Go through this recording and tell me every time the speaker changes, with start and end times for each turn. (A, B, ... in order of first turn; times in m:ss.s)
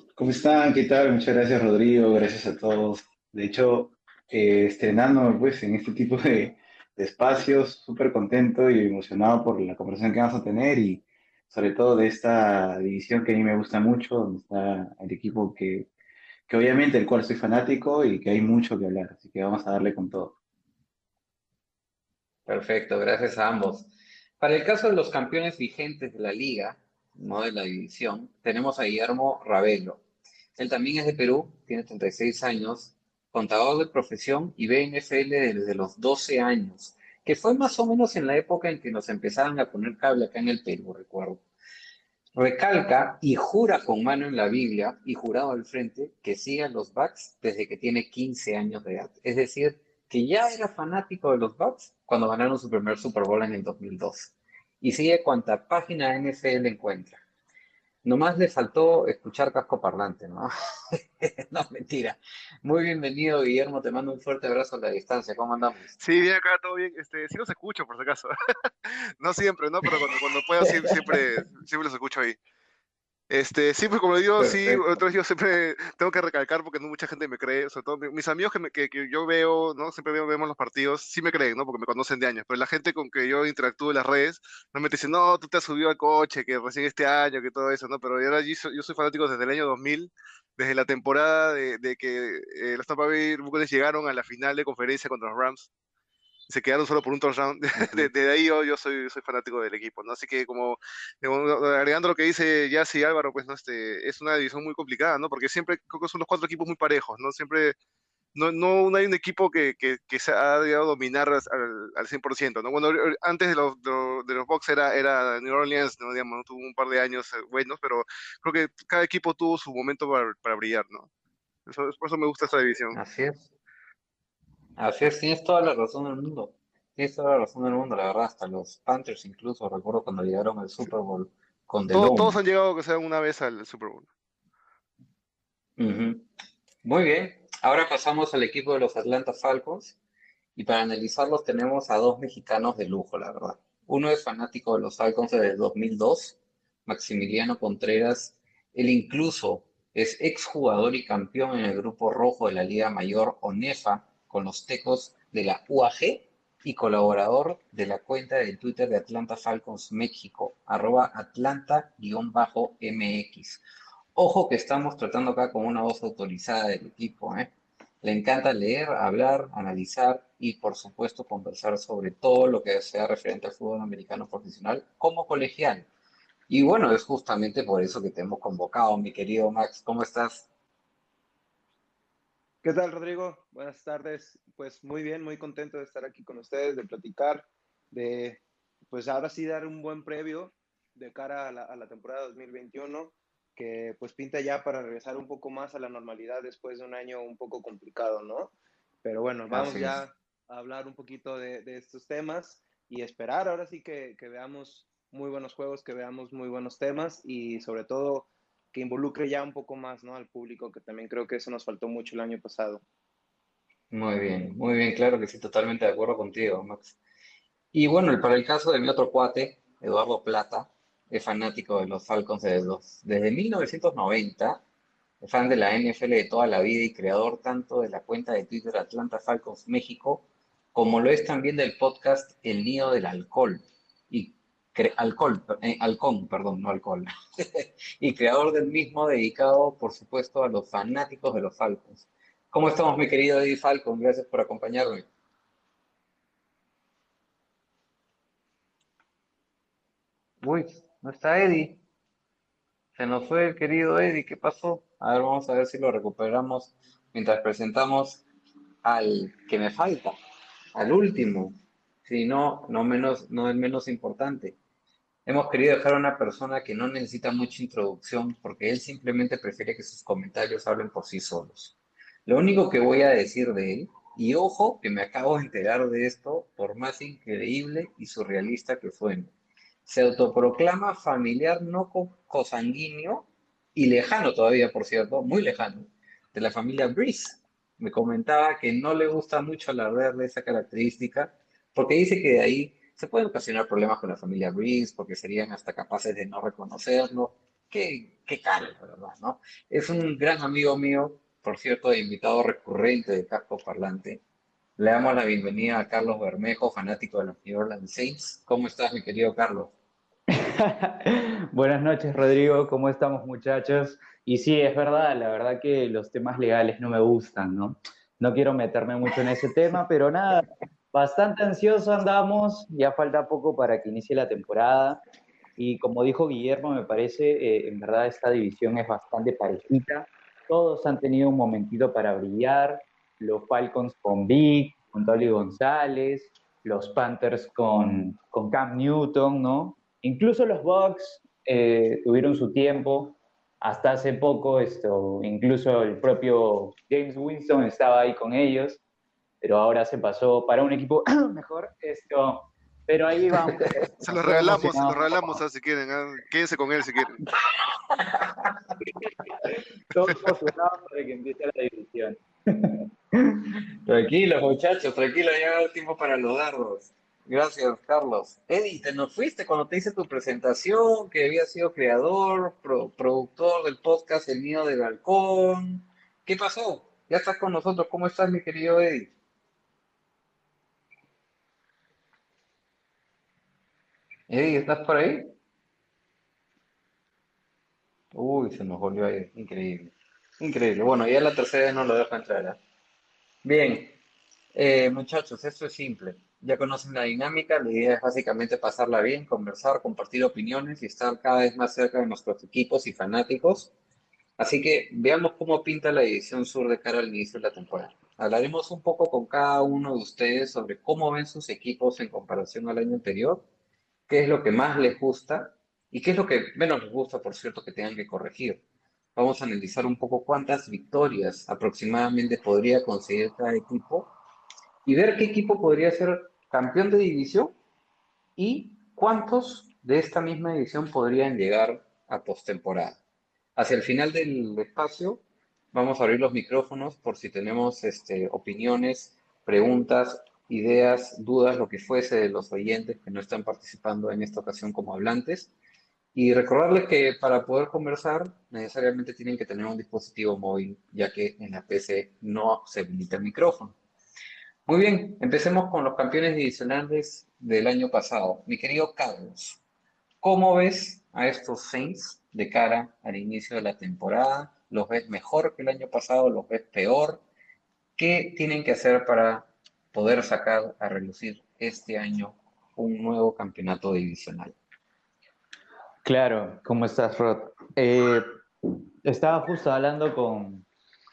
0:00.2-0:15.9 A
0:16.5-0:20.4 A
0:22.5-0:23.9 B
0:24.4-0:30.0 B
0:30.6-0:41.4 B
0:42.4-0:57.2 B
0:58.0-1:06.0 B
1:06.0-1:08.3 C
1:08.8-1:12.4 C
1:10.6-1:11.2 B
1:13.3-1:35.7 C
1:14.4-1:14.8 B
1:36.5-1:47.8 C
1:37.8-1:38.1 B
1:48.4-2:01.1 C
2:01.7-2:03.0 C
2:02.9-2:03.4 B
2:04.8-2:12.4 B
2:11.9-2:14.1 C
2:15.8-2:16.3 B
2:16.8-2:20.0 B
2:20.6-2:43.6 B
2:44.2-2:55.9 B
2:56.5-3:00.5 B
3:02.6-3:18.5 D
3:19.0-3:32.8 D
3:19.5-3:20.0 B
3:33.9-3:37.0 B
3:37.7-3:44.6 B
3:45.2-4:05.1 B
4:10.4-4:11.8 B
4:13.0-4:18.2 B
4:18.8-4:20.2 B
4:20.8-4:24.6 B
4:25.3-4:31.8 B
4:32.3-4:39.3 B
4:39.9-5:04.2 B
5:04.8-5:09.7 B
5:10.3-5:25.0 E
5:25.6-5:48.8 E
5:49.4-5:55.4 E
5:54.1-5:57.2 C
5:57.4-5:58.6 B
5:59.4-6:03.4 E
6:03.9-6:19.1 B
6:24.3-6:25.4 B
6:28.1-6:32.6 B
6:33.4-6:34.0 B
6:34.5-6:43.7 B
6:44.4-6:53.4 B
6:54.1-6:58.6 B
6:59.2-7:04.1 B
7:04.8-7:07.6 B
7:08.4-7:13.0 B
7:13.6-7:25.5 B
7:26.1-7:33.8 B
7:34.7-7:39.6 B
7:40.2-7:47.2 B
7:48.0-7:54.6 B
7:56.0-7:58.3 E
7:59.0-8:00.6 E